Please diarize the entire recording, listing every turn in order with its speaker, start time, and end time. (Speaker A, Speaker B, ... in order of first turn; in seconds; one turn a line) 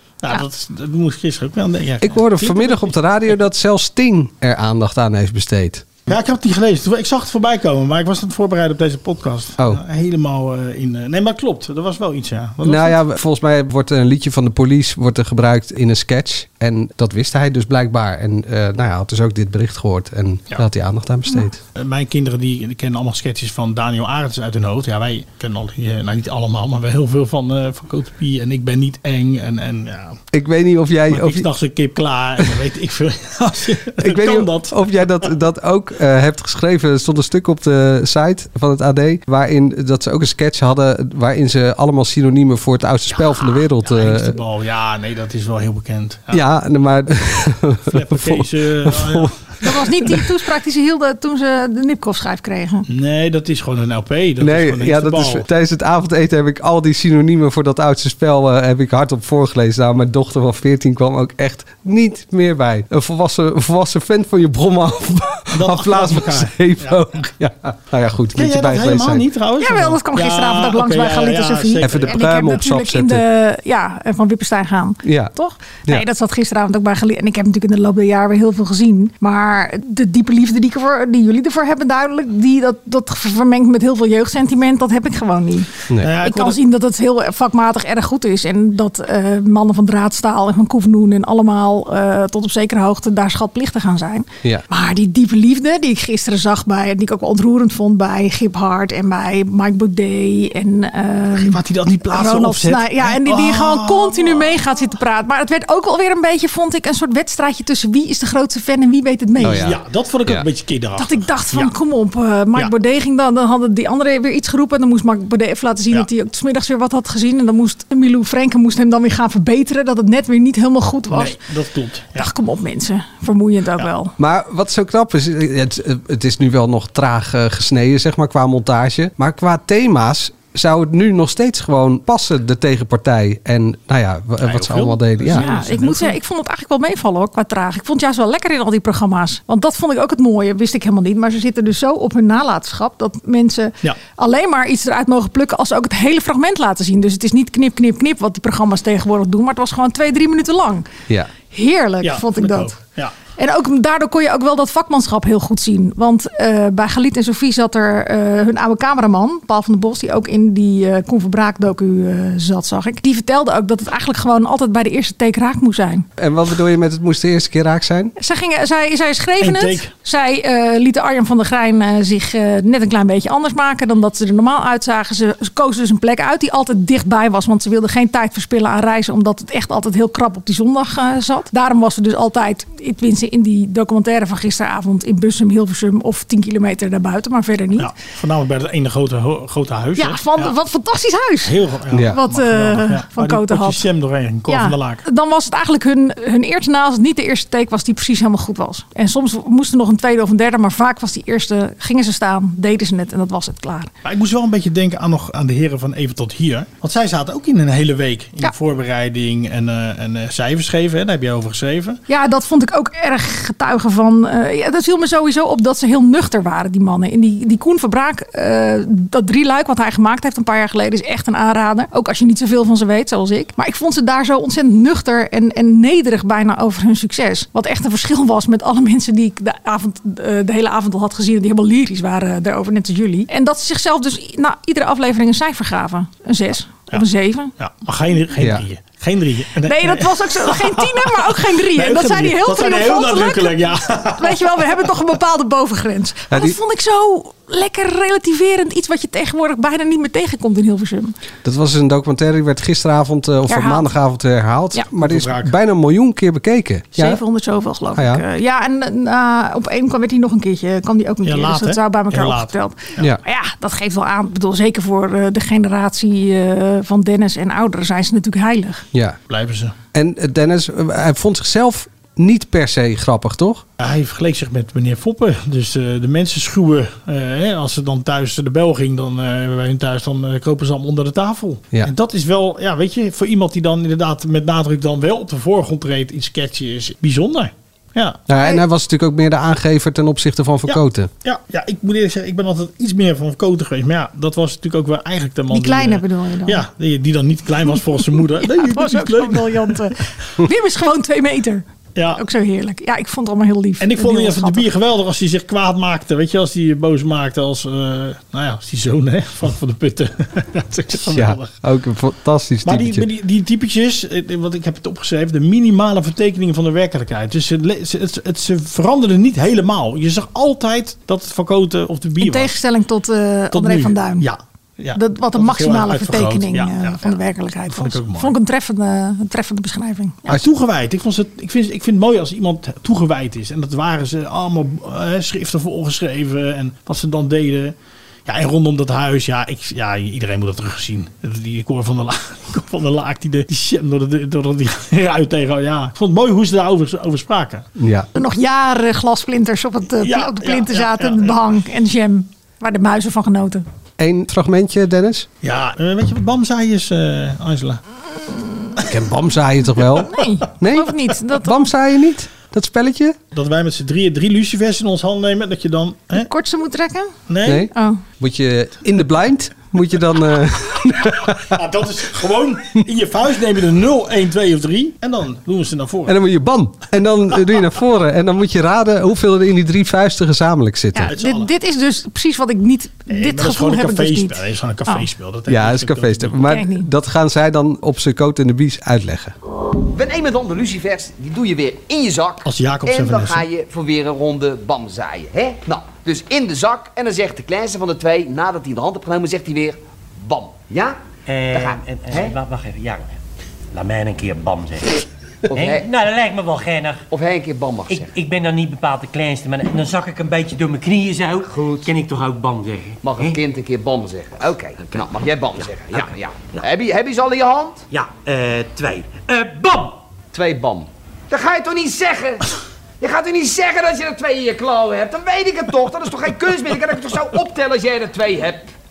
Speaker A: 0.2-2.9
Speaker B: 2.0-6.0
Speaker A: 6.1-13.0
Speaker B: 12.6-21.6
Speaker A: 21.8-30.2
Speaker B: 30.3-31.5
Speaker A: 31.1-35.2
Speaker B: 34.0-44.4
Speaker A: 43.1-46.4
Speaker B: 46.3-49.3
Speaker A: 47.9-49.5
Speaker C: 49.6-52.9
Speaker A: 52.9-55.4
Speaker B: 54.4-69.3
Speaker A: 65.5-67.1
Speaker A: 68.3-72.2
Speaker C: 69.6-101.6
Speaker B: 71.8-73.2
Speaker B: 75.0-75.3
Speaker A: 86.0-86.6
Speaker A: 101.3-104.6
Speaker C: 102.1-109.7
Speaker B: 109.4-110.5
Speaker A: 109.4-111.7
Speaker C: 111.0-121.4
Speaker A: 121.1-122.3
Speaker C: 122.2-124.1
Speaker B: 124.2-135.5
Speaker A: 134.4-136.2
Speaker C: 135.3-150.9
Speaker C: 151.5-152.8
Speaker A: 152.0-153.1
Speaker C: 153.3-166.1
Speaker B: 166.2-168.1
Speaker C: 168.2-187.9
Speaker A: 169.4-169.9
Speaker A: 187.8-190.5
Speaker C: 189.9-193.8
Speaker A: 191.4-195.0
Speaker B: 191.9-192.2
Speaker C: 194.5-203.9
Speaker A: 204.0-212.0
Speaker C: 212.1-237.5
Speaker A: 237.6-244.8
Speaker B: 238.4-238.7
Speaker C: 239.7-251.2
Speaker B: 246.3-246.6
Speaker B: 251.4-257.2
Speaker C: 253.5-253.9
Speaker A: 254.9-255.5
Speaker C: 256.9-268.8
Speaker B: 257.9-258.2
Speaker A: 261.2-263.1
Speaker A: 269.3-269.7
Speaker B: 269.9-273.6
Speaker A: 273.8-288.2
Speaker B: 288.3-291.1
Speaker C: 288.3-288.6
Speaker A: 290.7-299.9
Speaker C: 295.5-296.6
Speaker C: 298.4-301.6
Speaker A: 301.9-302.2
Speaker C: 302.1-304.7
Speaker A: 303.8-311.5
Speaker B: 311.1-313.1
Speaker A: 312.6-322.6
Speaker C: 322.2-324.3
Speaker A: 323.5-328.3
Speaker C: 324.9-330.3
Speaker A: 330.3-337.7
Speaker A: 338.3-347.7
Speaker B: 347.8-348.1
Speaker C: 348.1-353.6
Speaker A: 350.0-351.4
Speaker B: 354.0-355.3
Speaker A: 355.4-357.8
Speaker B: 358.9-363.2
Speaker C: 359.9-361.7
Speaker A: 363.3-366.3
Speaker C: 366.1-367.2
Speaker A: 367.3-367.7
Speaker B: 367.4-371.6
Speaker C: 367.7-368.0
Speaker A: 371.4-376.1
Speaker B: 376.1-381.1
Speaker C: 380.9-385.1
Speaker A: 381.1-381.5
Speaker A: 383.1-386.4
Speaker B: 385.5-389.3
Speaker C: 386.4-386.9
Speaker D: 389.9-401.0
Speaker A: 392.4-393.4
Speaker E: 401.3-403.2
Speaker D: 401.5-402.3
Speaker E: 403.7-405.0
Speaker D: 405.5-405.9
Speaker E: 405.5-407.0
Speaker D: 407.1-408.1
Speaker E: 407.9-413.4
Speaker D: 413.0-417.8
Speaker E: 417.9-420.0
Speaker D: 420.3-422.4
Speaker D: 423.0-428.7